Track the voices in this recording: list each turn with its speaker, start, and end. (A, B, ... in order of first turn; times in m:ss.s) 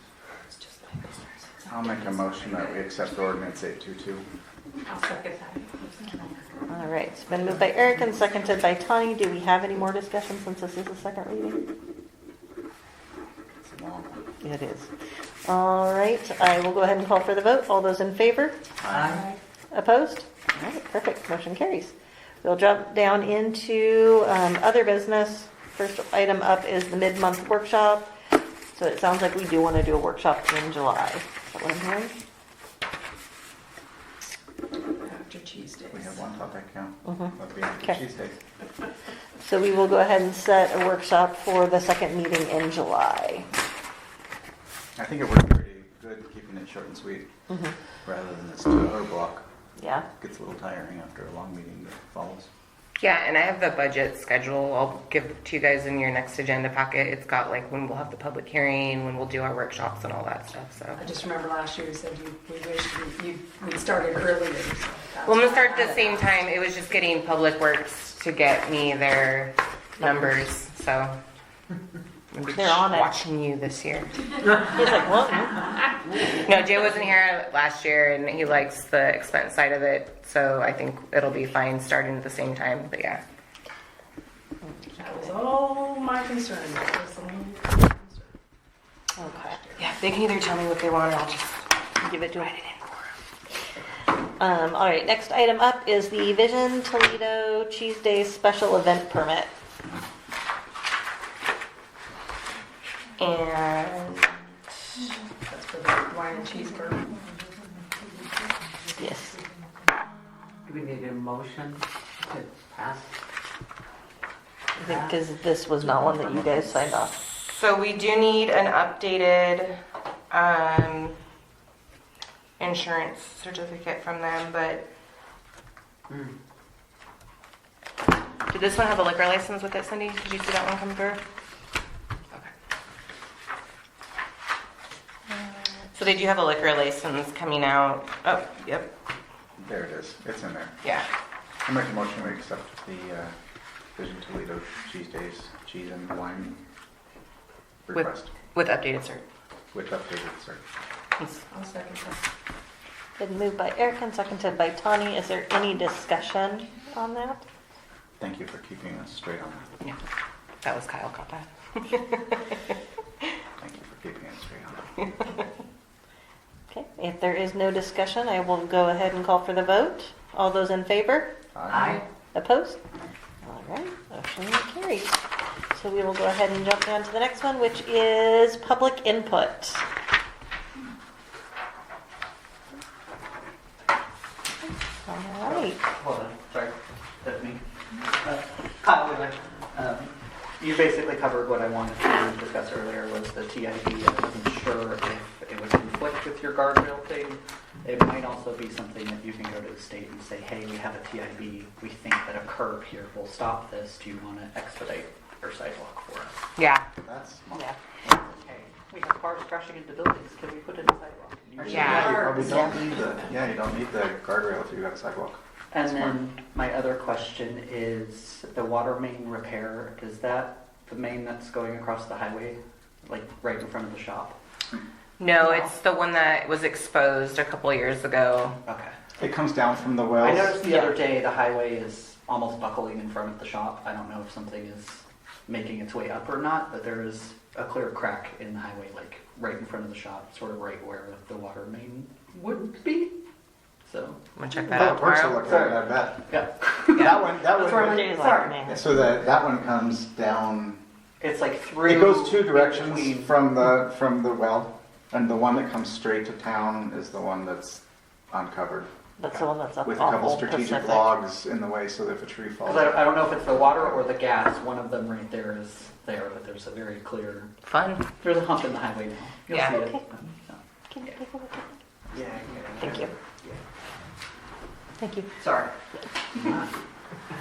0:00.6-0:02.7 A
0:01.7-0:04.3 B
0:04.8-0:06.4 A
0:06.7-0:11.6 C
0:13.6-0:14.2 B
0:14.4-0:14.9 C
0:15.4-0:18.6 C
0:18.8-0:19.2 B
0:18.9-0:19.3 D
0:19.7-0:28.1 C
0:28.7-0:32.1 C
0:35.0-0:36.2 A
0:35.9-0:38.4 B
0:37.1-0:37.3 C
0:39.4-0:43.5 C
0:45.0-0:47.3 B
0:48.0-0:49.4 B
0:49.8-0:50.1 C
0:50.2-0:52.5 B
0:53.0-1:01.1 E
1:01.0-1:06.1 A
1:05.2-1:11.2 E
1:12.3-1:14.2 E
1:12.6-1:13.2 C
1:14.6-1:15.7 C
1:16.3-1:23.2 E
1:25.0-1:28.3 A
1:29.2-1:29.6 C
1:29.2-1:30.0 A
1:29.8-1:31.7 E
1:32.0-1:32.5 C
1:32.4-1:33.0 E
1:34.4-1:39.5 C
1:43.2-1:45.2 E
1:45.4-1:47.2 A
1:49.0-1:49.4 C
1:50.7-1:53.1 D
1:54.8-1:55.1 D
1:54.8-1:57.2 C
1:57.2-1:59.8 E
2:00.3-2:01.2 E
2:02.6-2:04.9 E
2:08.5-2:11.2 E
2:15.3-2:18.9 E
2:19.6-2:20.7 B
2:21.6-2:23.3 B
2:24.0-2:26.6 B
2:27.9-2:28.3 B
2:27.9-2:29.2 E
2:29.7-2:30.6 B
2:31.2-2:31.5 E
2:31.5-2:32.2 A
2:33.2-2:37.5 C
2:38.2-2:39.7 B
2:40.6-2:42.6 E
2:43.6-2:45.3 B
2:46.7-2:51.3 C
2:51.6-2:52.0 B
2:51.7-2:52.0 D
2:52.3-2:52.8 C
2:53.4-2:55.2 C
2:55.7-2:59.8 C
3:05.0-3:05.8 C
3:05.4-3:26.4 F
3:26.6-3:26.9 E
3:27.0-3:28.3 B
3:28.1-3:32.8 F
3:31.6-3:35.4 B
3:31.6-3:32.2 E
3:35.7-3:44.4 F
3:45.2-3:48.6 E
3:45.4-3:45.7 C
3:48.7-3:48.9 F
3:49.2-3:50.6 B
3:50.2-4:03.1 F
4:03.9-4:04.2 F
4:04.4-4:05.4 E
4:04.7-4:10.8 B
4:05.4-4:08.8 F
4:07.6-4:08.8 C
4:11.2-4:13.4 F
4:11.8-4:18.9 B
4:19.2-4:21.2 C
4:19.8-4:24.1 B
4:22.7-4:27.5 F
4:27.6-4:28.1 E
4:28.2-4:30.6 F
4:29.5-4:29.8 E
4:29.8-4:30.0 C
4:30.9-4:31.7 C
4:32.1-4:33.0 B
4:32.1-4:33.6 F
4:32.8-4:33.1 C
4:35.0-4:35.3 C
4:35.4-4:35.7 F